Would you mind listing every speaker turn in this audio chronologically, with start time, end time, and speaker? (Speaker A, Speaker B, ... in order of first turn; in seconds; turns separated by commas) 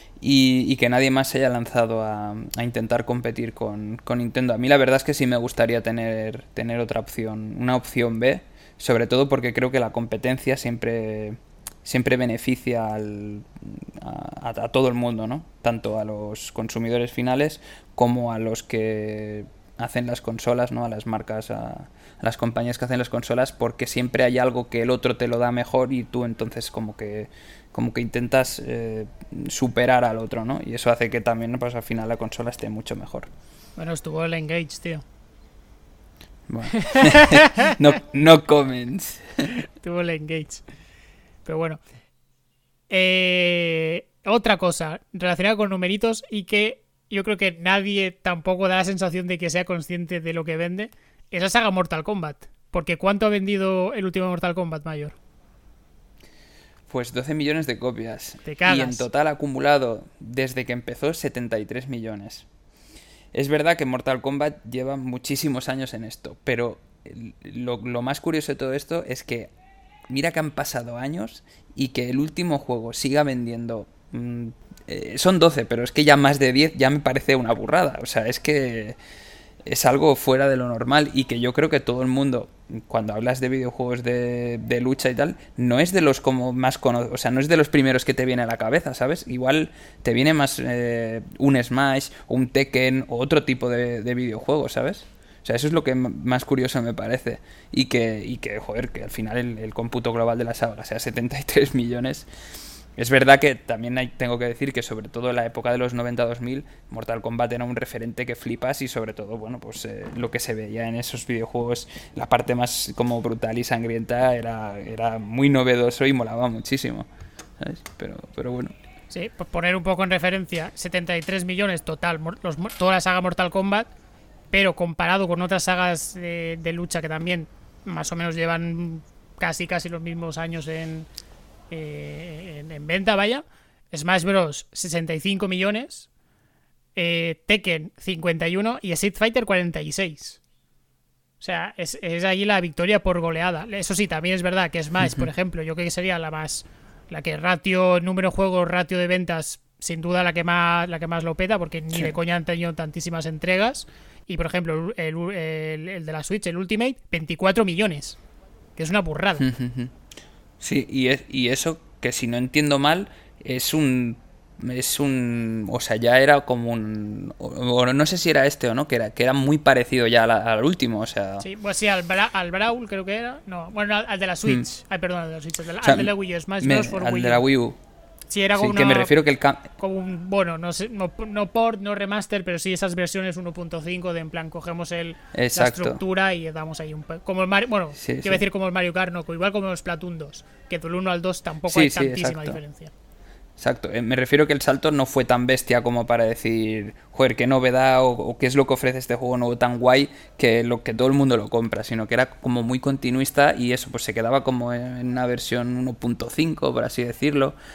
Speaker A: 0.2-33.3, Speaker B: 33.8-35.0, Speaker A: 36.5-39.5, Speaker B: 36.7-37.8, Speaker B: 39.5-40.6, Speaker B: 41.4-41.8, Speaker B: 42.9-55.1, Speaker A: 56.9-62.5, Speaker B: 58.4-59.0, Speaker A: 63.3-69.5, Speaker A: 70.1-79.0, Speaker A: 79.6-102.3, Speaker A: 103.0-117.1, Speaker A: 117.6-118.7, Speaker B: 119.1-123.9, Speaker B: 124.5-131.1, Speaker B: 131.7-136.1, Speaker B: 136.9-140.4, Speaker B: 141.4-158.2, Speaker A: 145.0-145.3, Speaker B: 158.8-159.5, Speaker A: 159.4-159.9, Speaker A: 160.6-171.4, Speaker B: 171.4-177.4, Speaker A: 175.8-177.8, Speaker B: 178.3-179.1, Speaker A: 178.5-179.7, Speaker B: 179.8-192.9, Speaker A: 185.3-186.0, Speaker A: 187.9-188.4, Speaker A: 191.7-192.6, Speaker A: 193.6-207.5